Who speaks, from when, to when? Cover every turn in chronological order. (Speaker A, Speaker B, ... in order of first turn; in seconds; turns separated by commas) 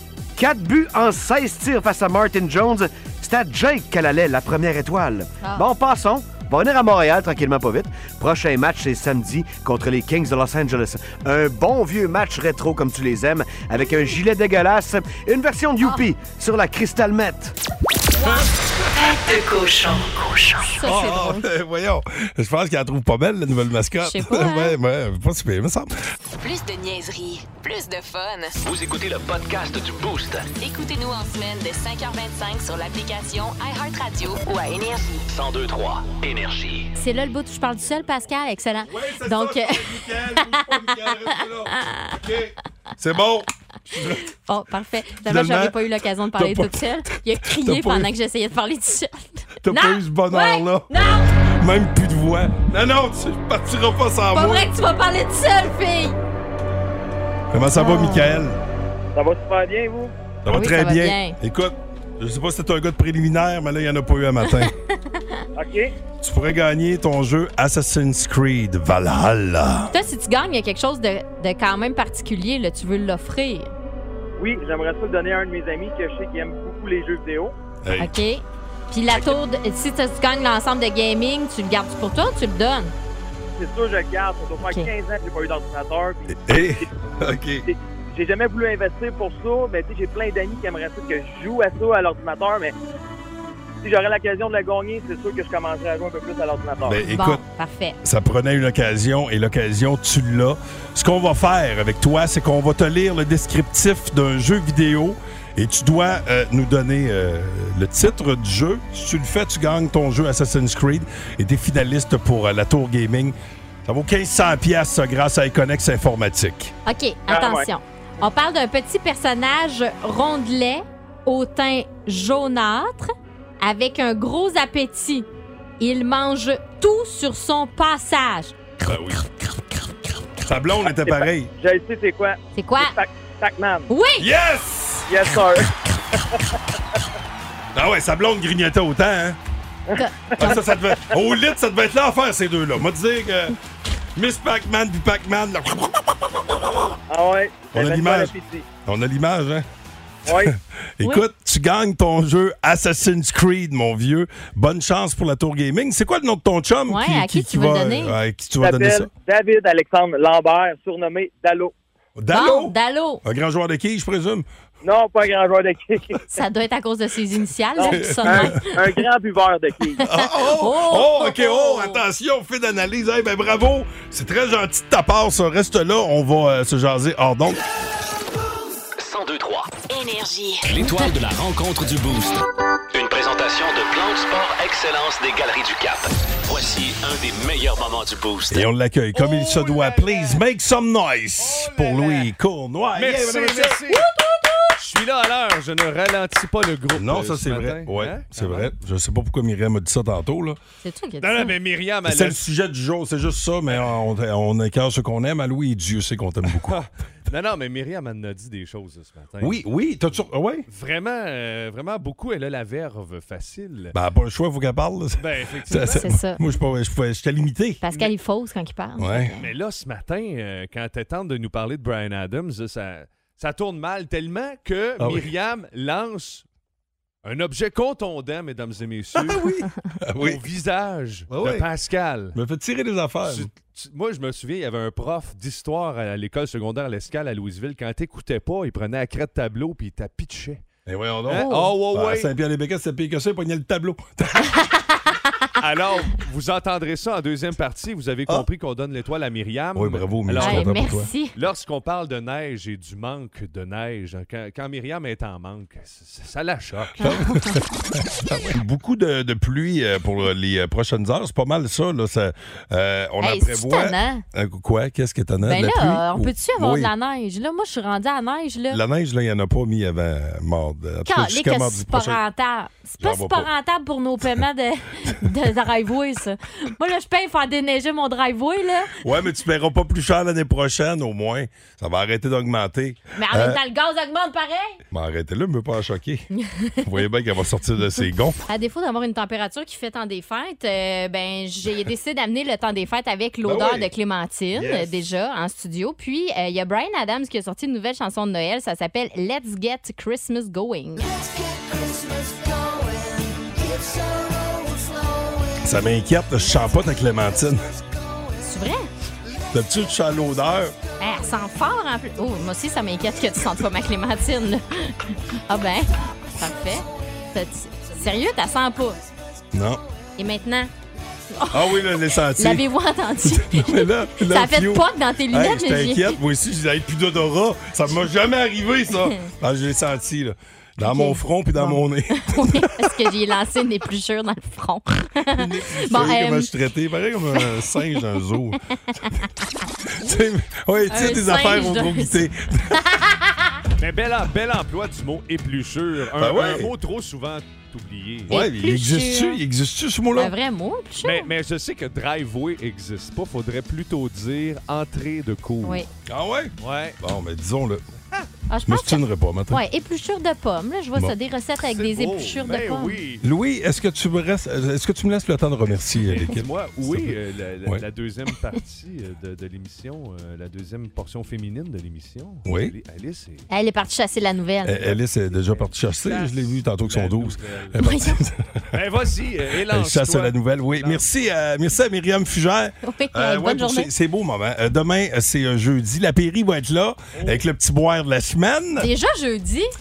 Speaker A: 0.4-17.6, Speaker B: 19.0-20.6, Speaker C: 20.8-21.5, Speaker D: 20.8-25.9, Speaker C: 24.0-24.8, Speaker B: 26.4-28.6, Speaker E: 28.6-30.5, Speaker B: 30.6-35.2, Speaker E: 35.3-36.9, Speaker C: 37.0-42.2, Speaker D: 38.9-44.2, Speaker C: 44.0-51.3, Speaker D: 45.2-45.8, Speaker D: 46.3-48.1, Speaker D: 49.6-54.7, Speaker C: 54.3-56.2, Speaker D: 57.5-58.6, Speaker C: 57.8-58.4, Speaker F: 59.2-60.1, Speaker D: 60.4-64.7, Speaker C: 60.5-61.4, Speaker C: 64.4-65.5, Speaker F: 65.5-65.9, Speaker D: 66.2-69.9, Speaker C: 69.9-73.7, Speaker F: 74.4-77.5, Speaker D: 77.8-78.2, Speaker C: 78.0-82.9, Speaker D: 79.1-79.4, Speaker F: 83.6-86.9, Speaker C: 84.6-84.9, Speaker D: 86.3-87.7, Speaker F: 87.7-92.7, Speaker F: 93.8-97.0, Speaker D: 96.8-97.4, Speaker C: 97.0-98.0, Speaker D: 98.0-116.7, Speaker C: 116.9-125.3, Speaker F: 117.3-117.7, Speaker C: 125.8-128.6, Speaker D: 128.8-129.3, Speaker D: 130.4-131.5, Speaker F: 131.1-133.9, Speaker C: 132.6-133.0, Speaker C: 133.9-134.3, Speaker D: 134.2-135.2, Speaker F: 135.1-135.7, Speaker D: 137.7-139.4, Speaker F: 139.9-141.2, Speaker C: 139.9-140.6, Speaker D: 140.4-143.6, Speaker D: 144.2-147.0, Speaker F: 147.1-148.7, Speaker D: 147.7-148.3, Speaker D: 148.9-149.7, Speaker F: 150.3-150.5, Speaker D: 150.3-159.1, Speaker C: 156.9-158.2, Speaker F: 158.6-161.7, Speaker D: 162.2-164.5, Speaker C: 162.3-163.2, Speaker F: 164.8-166.3, Speaker C: 166.3-168.8, Speaker F: 167.8-170.1, Speaker D: 167.9-168.7, Speaker C: 170.0-172.0, Speaker D: 170.1-177.6, Speaker E: 179.0-179.8, Speaker B: 179.9-180.7, Speaker E: 180.6-188.7, Speaker D: 188.5-194.0, Speaker G: 189.1-190.4, Speaker G: 191.4-192.3, Speaker G: 192.9-198.7, Speaker D: 196.9-200.6, Speaker C: 200.8-201.6, Speaker G: 201.2-202.4, Speaker D: 202.1-206.8, Speaker G: 206.5-214.0, Speaker D: 209.4-210.7, Speaker D: 213.9-217.8, Speaker G: 215.2-216.1, Speaker C: 215.9-216.4, Speaker C: 217.8-219.5, Speaker D: 219.0-219.3, Speaker G: 219.4-226.4, Speaker D: 225.0-225.3, Speaker G: 227.2-229.5, Speaker D: 229.2-230.4, Speaker G: 230.2-232.4, Speaker D: 231.3-231.7, Speaker D: 232.3-233.5, Speaker G: 233.2-240.7, Speaker D: 240.9-244.5, Speaker G: 241.3-242.3, Speaker G: 245.6-250.8, Speaker D: 249.8-251.1, Speaker C: 250.4-251.3, Speaker G: 251.3-257.0, Speaker D: 257.0-266.9, Speaker C: 257.0-257.6, Speaker C: 263.2-264.2, Speaker C: 265.4-268.8, Speaker D: 268.7-272.2, Speaker C: 271.1-279.0, Speaker D: 273.0-273.5, Speaker D: 279.0-283.6, Speaker C: 283.2-284.8, Speaker D: 284.9-286.3, Speaker C: 286.4-286.8, Speaker D: 286.8-288.4, Speaker C: 288.5-301.2, Speaker D: 293.4-293.9, Speaker D: 294.5-295.0, Speaker D: 305.6-307.6, Speaker C: 308.4-308.9, Speaker D: 309.5-310.8, Speaker C: 311.0-319.0, Speaker D: 319.5-319.8, Speaker C: 320.2-320.7, Speaker C: 321.3-321.8, Speaker D: 321.5-322.6, Speaker C: 322.4-326.2, Speaker D: 323.2-333.0, Speaker C: 330.8-336.5, Speaker D: 335.3-338.6, Speaker C: 339.0-339.3, Speaker D: 339.9-342.8, Speaker C: 340.9-343.6, Speaker G: 343.8-348.4, Speaker D: 346.1-346.7, Speaker D: 348.3-350.3, Speaker C: 348.3-349.4, Speaker C: 350.2-351.3, Speaker G: 351.0-355.8, Speaker D: 356.1-357.8, Speaker G: 356.6-357.0, Speaker C: 358.5-363.0, Speaker D: 358.7-359.6, Speaker G: 361.6-363.2, Speaker D: 363.2-367.8, Speaker G: 366.1-373.5, Speaker D: 372.4-372.8, Speaker C: 373.5-374.8, Speaker D: 374.6-378.8, Speaker G: 374.8-377.9, Speaker C: 377.8-378.2, Speaker G: 378.7-381.3, Speaker D: 379.7-388.9, Speaker C: 382.8-383.9, Speaker G: 387.1-387.4, Speaker C: 388.8-389.7